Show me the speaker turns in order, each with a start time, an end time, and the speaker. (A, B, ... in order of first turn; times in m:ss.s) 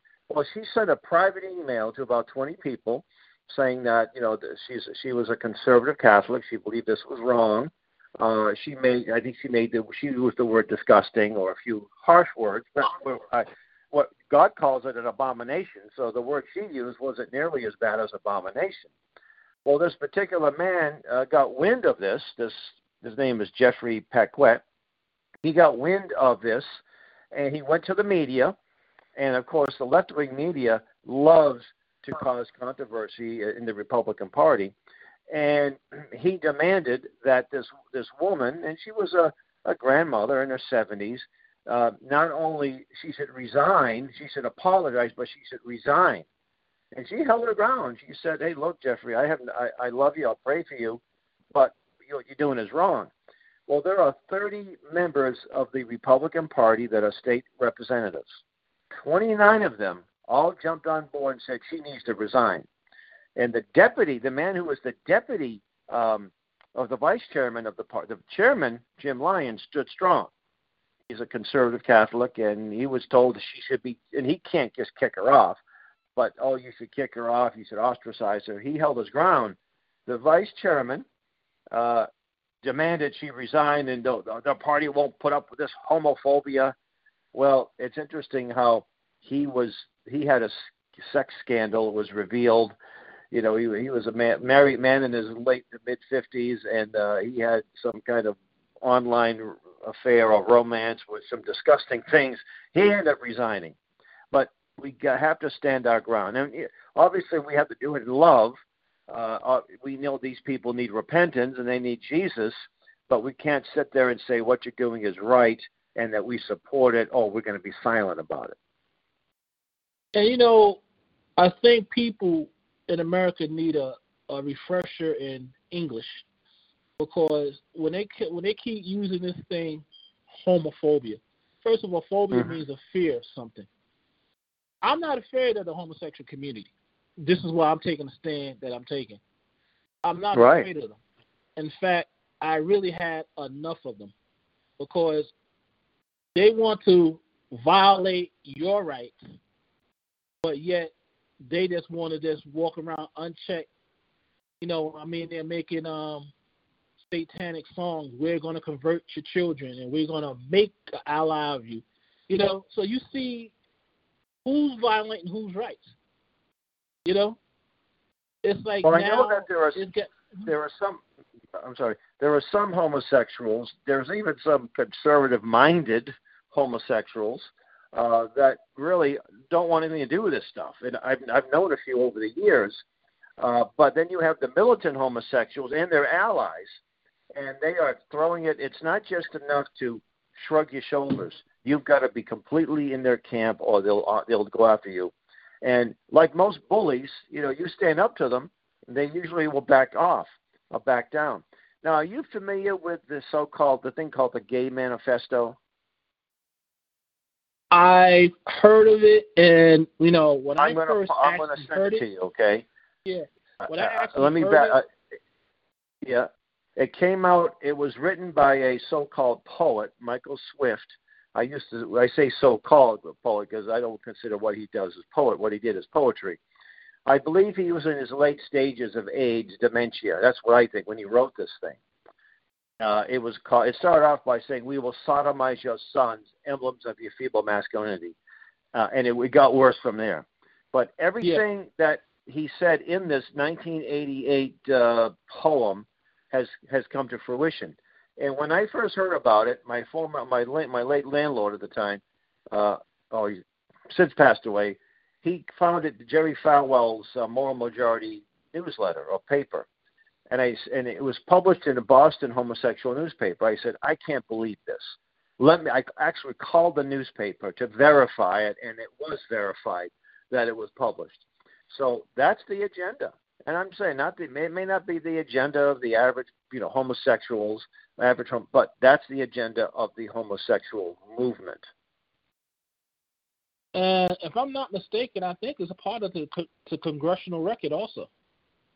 0:00.3-0:18.9 A
0:19.6-0:24.6 A
0:25.4-0:26.8 A
0:27.3-0:28.6 A
0:29.2-0:34.7 A
0:35.3-0:46.2 A
0:46.9-0:51.0 A
0:51.5-0:53.1 A
0:53.7-0:58.4 A
0:58.9-1:02.7 A
1:03.4-1:10.3 A
1:11.1-1:15.6 A
1:16.2-1:21.0 A
1:21.7-1:22.1 A
1:22.6-1:26.8 A
1:27.3-1:32.8 A
1:33.3-1:43.8 A
1:44.3-1:48.6 A
1:49.1-1:58.6 A
2:00.2-2:00.8 B
2:01.4-2:06.3 B
2:07.0-2:13.7 B
2:12.3-2:12.6 A
2:14.8-2:19.2 B
2:20.0-2:21.0 B
2:20.3-2:20.7 A
2:21.6-2:24.1 B
2:24.8-2:25.3 B
2:26.4-2:29.2 B
2:30.4-2:30.9 B
2:31.4-2:33.7 B
2:34.6-2:36.3 B
2:37.1-2:43.5 B
2:44.4-2:45.9 B
2:47.0-2:47.4 B
2:48.4-2:50.5 B
2:48.8-2:49.8 A
2:50.5-2:51.0 A
2:51.6-3:02.8 A
3:03.4-3:06.8 A
3:07.3-3:25.6 A
3:27.7-3:32.0 B
3:30.6-3:32.7 A
3:33.0-3:34.8 B
3:33.6-3:34.8 A
3:36.0-3:46.4 A
3:47.1-3:51.8 A
3:52.8-3:58.2 A
3:58.7-4:19.7 A
4:20.3-4:41.7 A
4:43.7-4:48.1 B